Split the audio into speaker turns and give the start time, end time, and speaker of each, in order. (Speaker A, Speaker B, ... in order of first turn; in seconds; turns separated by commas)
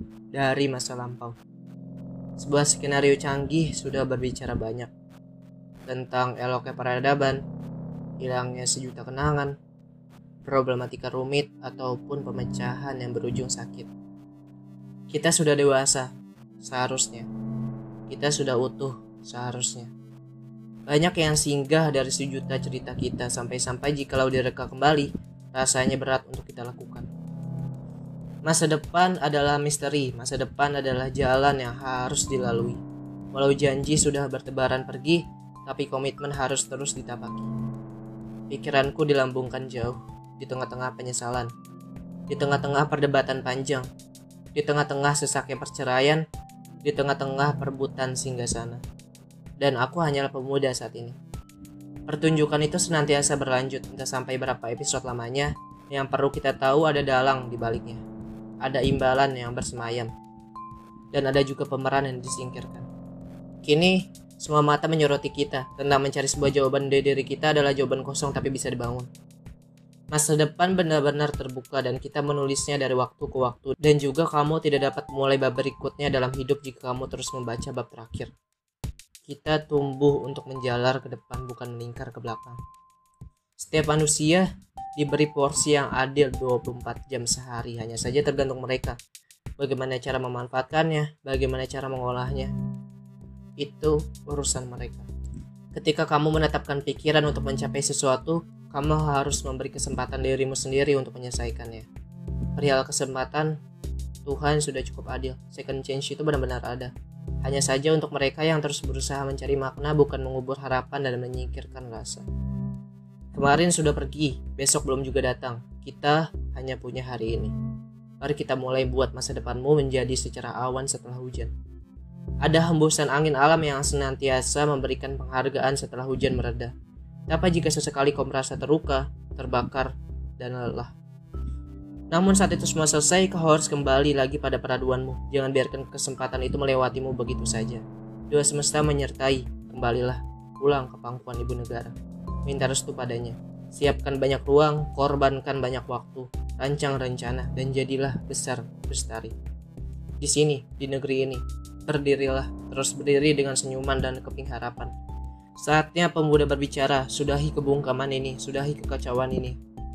Speaker A: 0.3-1.4, Speaker A: 2.4-4.9, Speaker A: 5.9-7.4, Speaker A: 8.2-9.6, Speaker A: 10.4-13.9, Speaker A: 15.1-17.3, Speaker A: 18.1-19.9, Speaker A: 20.9-27.1, Speaker A: 28.4-32.8, Speaker A: 33.3-37.5, Speaker A: 38.5-41.5, Speaker A: 42.3-43.9, Speaker A: 44.5-46.2, Speaker A: 46.8-48.8, Speaker A: 49.6-51.2, Speaker A: 52.1-58.0, Speaker A: 58.6-60.1, Speaker A: 61.1-62.9, Speaker A: 63.6-69.1, Speaker A: 70.1-78.3, Speaker A: 79.3-82.6, Speaker A: 83.6-89.0, Speaker A: 89.6-92.5, Speaker A: 93.6-95.1, Speaker A: 95.7-101.9, Speaker A: 102.5-103.6, Speaker A: 104.2-112.2, Speaker A: 113.3-117.5, Speaker A: 118.2-121.5, Speaker A: 122.4-126.7, Speaker A: 127.3-130.9, Speaker A: 132.1-141.9, Speaker A: 142.4-149.3, Speaker A: 150.2-154.9, Speaker A: 155.6-159.6